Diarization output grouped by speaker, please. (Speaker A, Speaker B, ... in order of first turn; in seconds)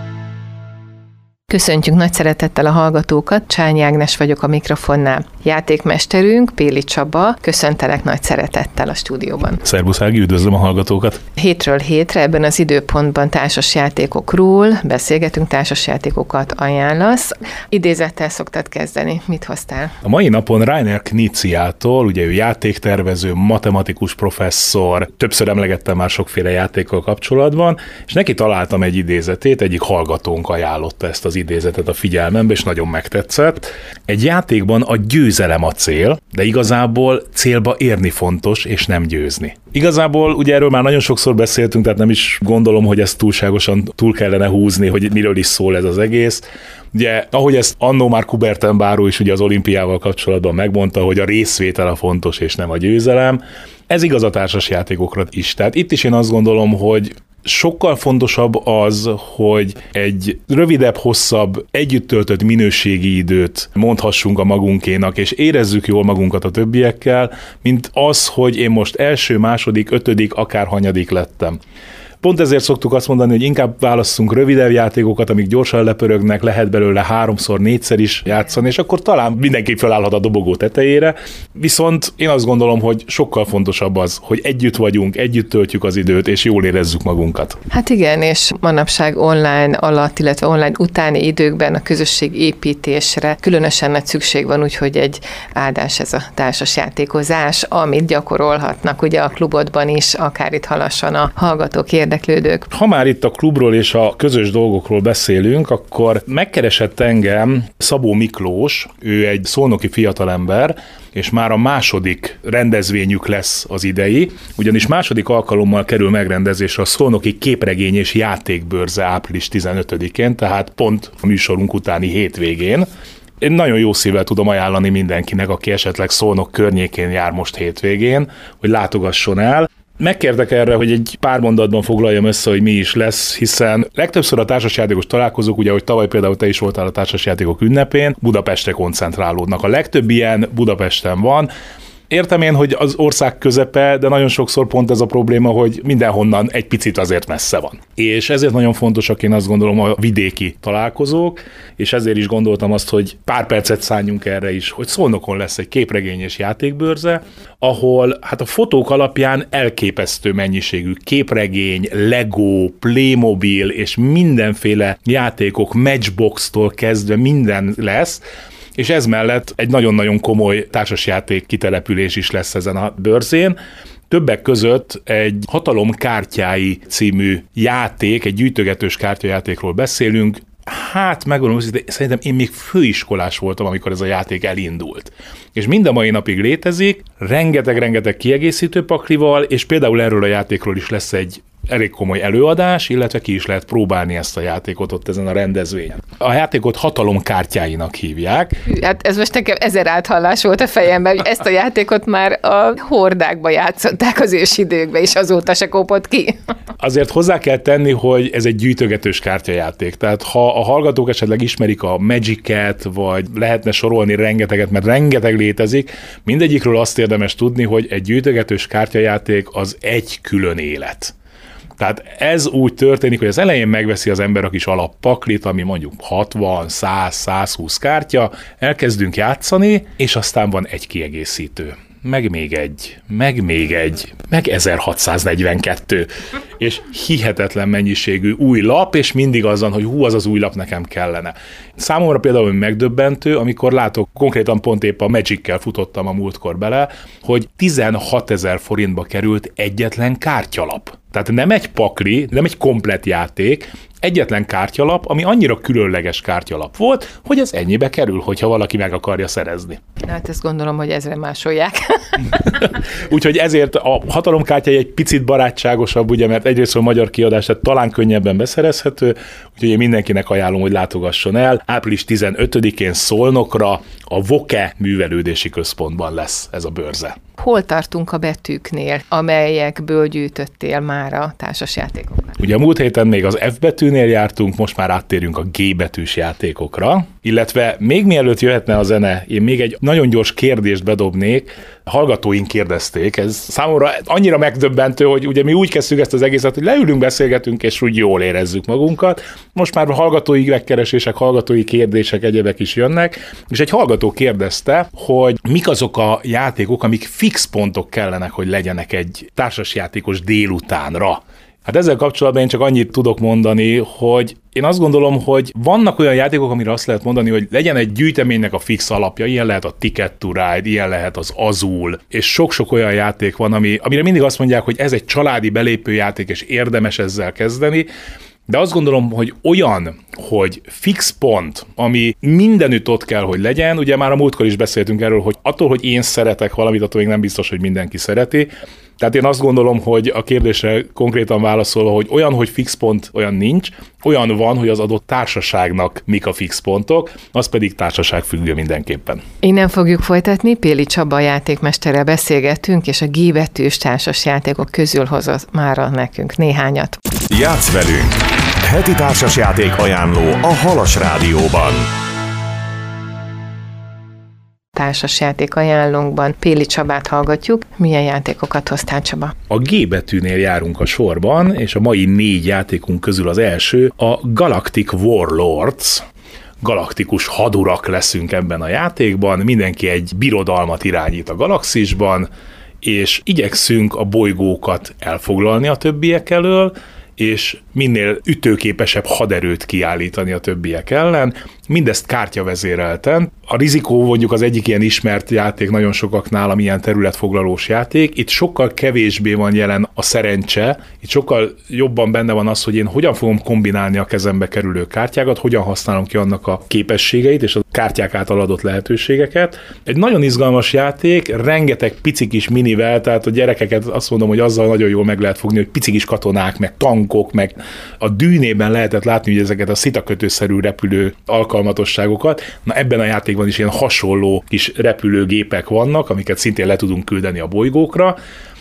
Speaker A: 1.5-9.6, 11.4-19.9, 87.7-102.7, 198.7-206.3, 260.0-262.4, 277.4-282.4, 349.4-357.0, 364.8-369.3
Speaker B: 9.6-11.2, 20.0-71.6, 72.2-87.6, 102.7-122.9, 123.4-141.5, 142.1-168.2, 168.8-173.6, 174.1-198.6, 206.8-221.1, 221.8-259.8, 262.4-277.2, 282.4-327.9, 328.5-349.2, 369.5-376.1, 376.6-382.3, 382.8-428.2
Speaker C: 357.3-361.9